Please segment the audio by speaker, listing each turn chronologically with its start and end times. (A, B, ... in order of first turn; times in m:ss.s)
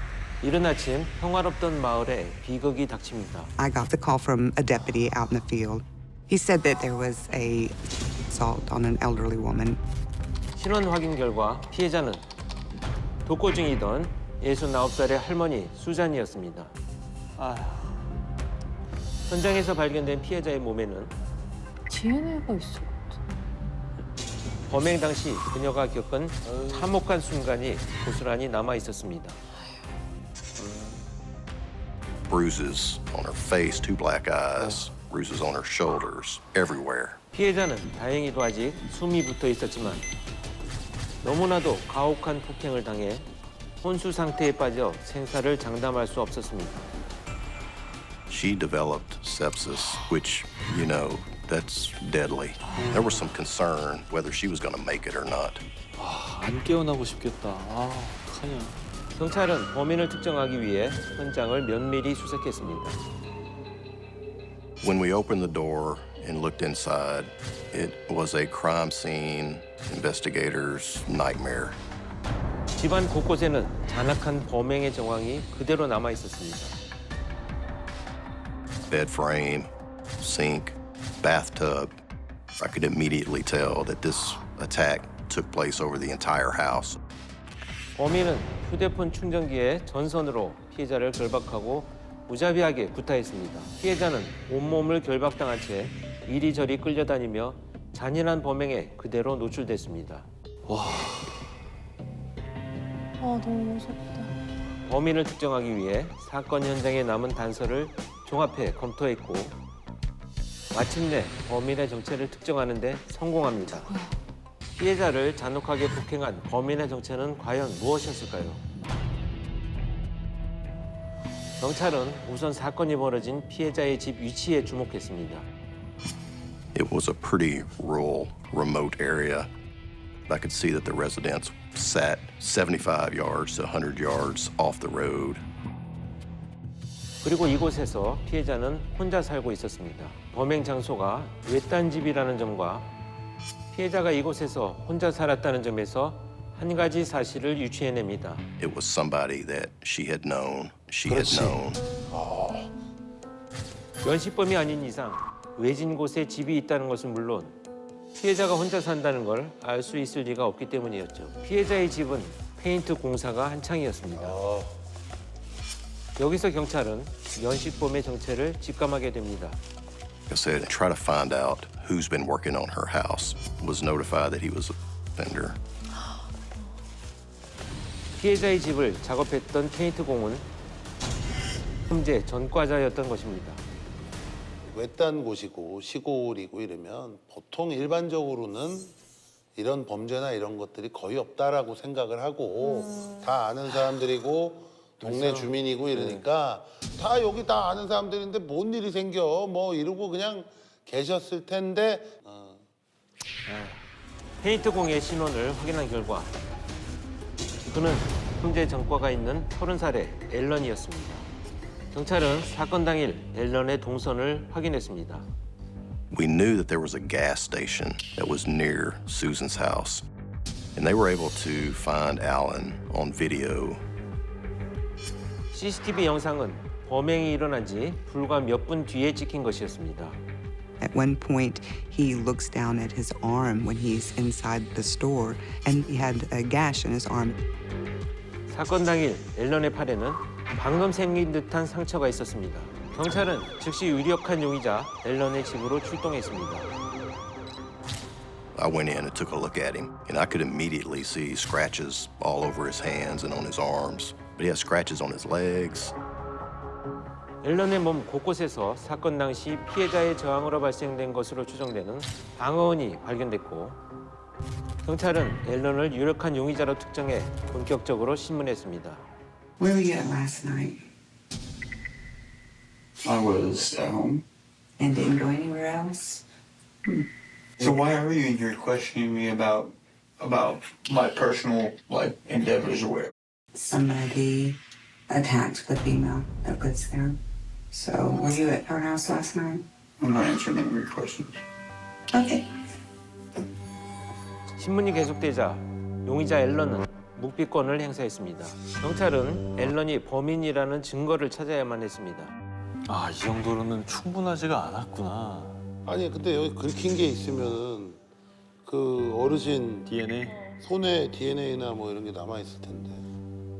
0:00.4-0:03.5 A
0:03.6-0:07.8 B
0:08.3-0:09.8 B
0:10.5-0:12.2 A
0:13.2-0:16.7 A
0:17.4-0:17.9 C
0:19.3-0:21.1 A
0:21.9-0:23.3 D
0:24.7-0:29.4 A
0:32.3-0:37.2 E
0:37.3-0:40.0 A
0:41.2-0:43.2 A
0:43.8-0:46.8 A
0:48.3-0:55.6 E
0:56.0-0:58.8 C
0:59.1-1:03.0 A
1:04.8-1:11.8 E
1:12.8-1:16.8 A
1:18.9-1:22.0 E
1:22.6-1:27.0 E
1:28.0-1:40.3 A
1:40.7-1:41.4 C
1:43.2-1:44.3 D
1:44.8-1:49.6 A
1:50.7-1:53.9 A
1:53.8-1:54.1 D
1:54.8-1:58.6 A
2:01.6-2:05.4 A
2:06.7-2:09.5 E
2:10.3-2:15.4 E
2:17.2-2:22.9 A
2:23.7-2:28.5 A
2:28.6-2:31.8 E
2:31.1-2:32.7 F
2:34.0-2:37.6 A
2:38.2-2:44.4 A
2:44.2-2:44.7 F
2:46.2-2:49.6 A
2:50.3-2:55.6 E
2:58.2-3:00.5 A
3:01.9-3:03.6 A
3:04.7-3:08.9 F
3:09.6-3:22.6 F
3:23.5-3:23.7 C
3:24.4-3:26.3 A
3:27.7-3:31.3 A
3:31.9-3:35.3 A
3:36.1-3:40.0 E
3:40.7-3:43.8 E
3:45.5-3:50.2 A
3:50.8-3:57.4 B
3:58.5-4:06.7 A
4:08.5-4:15.9 E
4:17.4-4:23.8 A
4:24.8-4:29.0 A
4:29.6-4:30.8 B
4:33.0-4:34.2 G
4:34.8-4:36.2 B
4:37.6-4:43.1 G
4:43.5-4:47.2 B
4:47.7-4:49.6 B
4:50.0-4:51.3 G
4:52.1-4:52.5 B
4:54.6-5:02.3 A
5:02.8-5:05.6 C
5:05.8-5:08.0 F
5:08.6-5:09.9 F
5:09.8-5:10.4 C
5:10.6-5:13.0 F